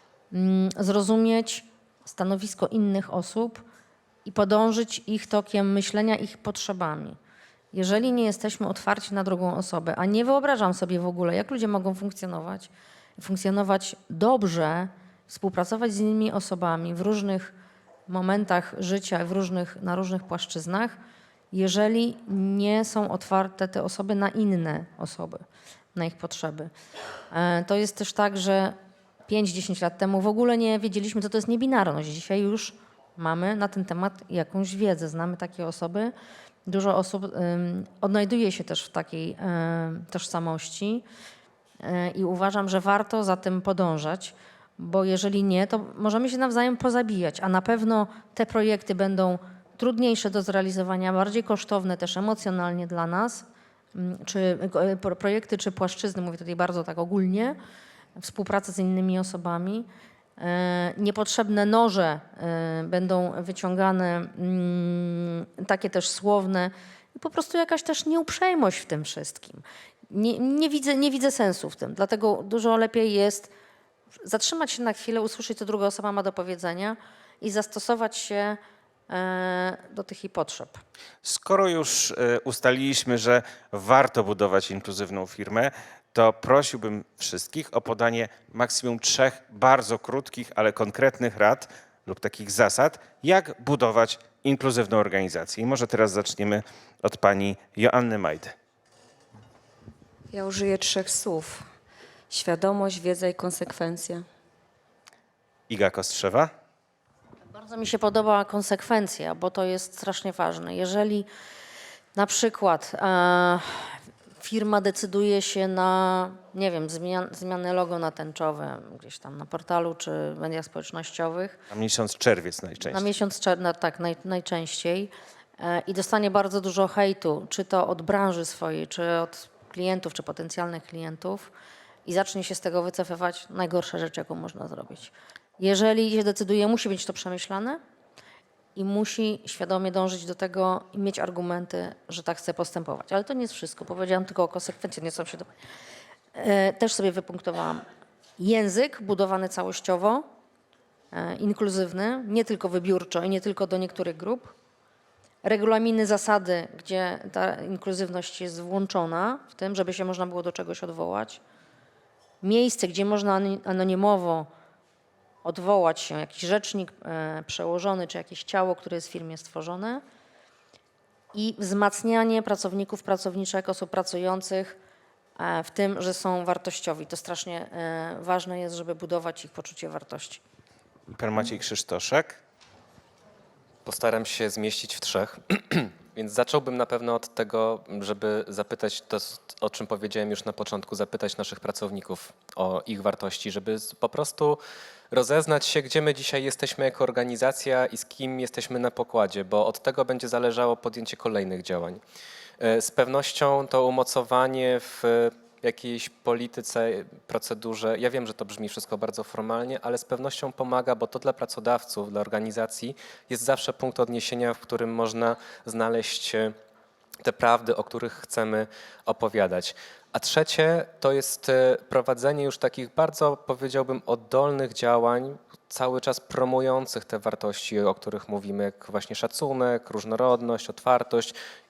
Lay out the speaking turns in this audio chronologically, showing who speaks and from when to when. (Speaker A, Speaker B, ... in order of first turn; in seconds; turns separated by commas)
Speaker A: 0.3-3.6, Speaker A: 4.2-7.2, Speaker A: 7.7-17.5, Speaker A: 18.1-21.0, Speaker A: 21.5-26.7, Speaker A: 27.3-28.8, Speaker A: 29.3-36.1, Speaker A: 36.7-41.0, Speaker A: 41.8-57.6, Speaker A: 58.2-59.9, Speaker A: 60.4-73.5, Speaker A: 74.2-80.8, Speaker B: 81.2-98.5, Speaker C: 100.3-101.7, Speaker C: 102.3-104.2, Speaker B: 105.7-106.5, Speaker A: 107.5-111.3, Speaker A: 112.1-121.6, Speaker B: 121.7-123.1, Speaker A: 122.8-131.5, Speaker A: 132.1-137.8, Speaker A: 138.8-145.5, Speaker A: 146.3-147.8, Speaker A: 148.4-150.2, Speaker A: 151.1-154.5, Speaker A: 155.4-161.4, Speaker A: 162.4-164.5, Speaker A: 165.4-170.0, Speaker A: 171.3-174.8, Speaker A: 175.4-180.4, Speaker B: 181.1-182.4, Speaker D: 183.8-194.6, Speaker D: 195.1-202.0, Speaker D: 202.6-216.5, Speaker D: 217.2-231.3